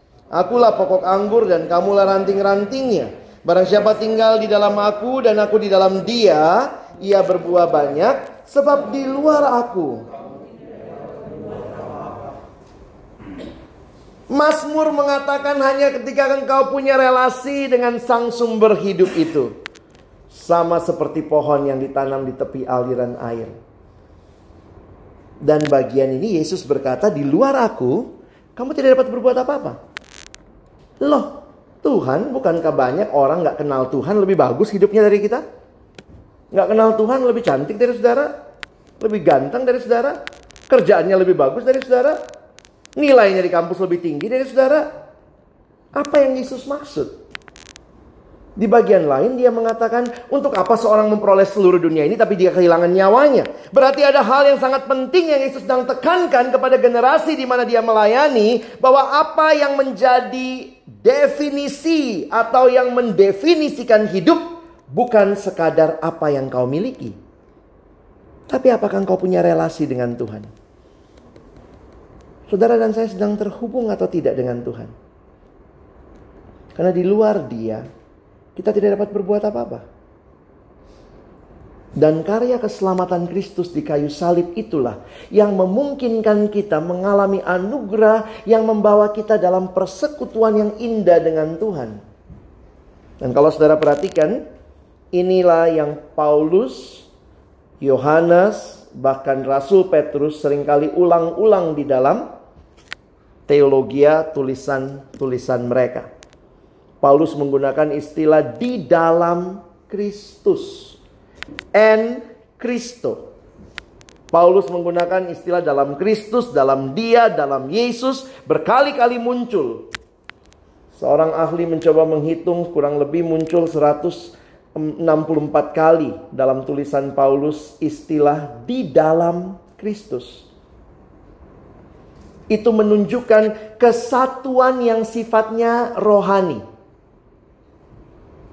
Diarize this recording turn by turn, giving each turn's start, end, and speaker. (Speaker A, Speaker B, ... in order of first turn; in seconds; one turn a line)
Speaker A: 0.3-10.0
Speaker A: 14.3-19.5
Speaker A: 20.3-23.5
Speaker A: 25.4-29.8
Speaker A: 31.0-35.4
Speaker A: 36.5-38.3
Speaker A: 39.0-42.2
Speaker A: 43.0-44.9
Speaker A: 46.0-47.1
Speaker A: 48.6-67.2
Speaker A: 68.5-70.5
Speaker A: 72.5-74.9
Speaker A: 76.7-77.8
Speaker A: 78.5-79.8
Speaker A: 82.0-92.0
Speaker A: 93.2-94.4
Speaker A: 95.1-97.1
Speaker A: 97.8-102.3
Speaker A: 103.5-106.1
Speaker A: 107.0-111.0
Speaker A: 111.7-113.3
Speaker A: 114.3-119.9
Speaker A: 120.9-130.5
Speaker A: 132.5-136.6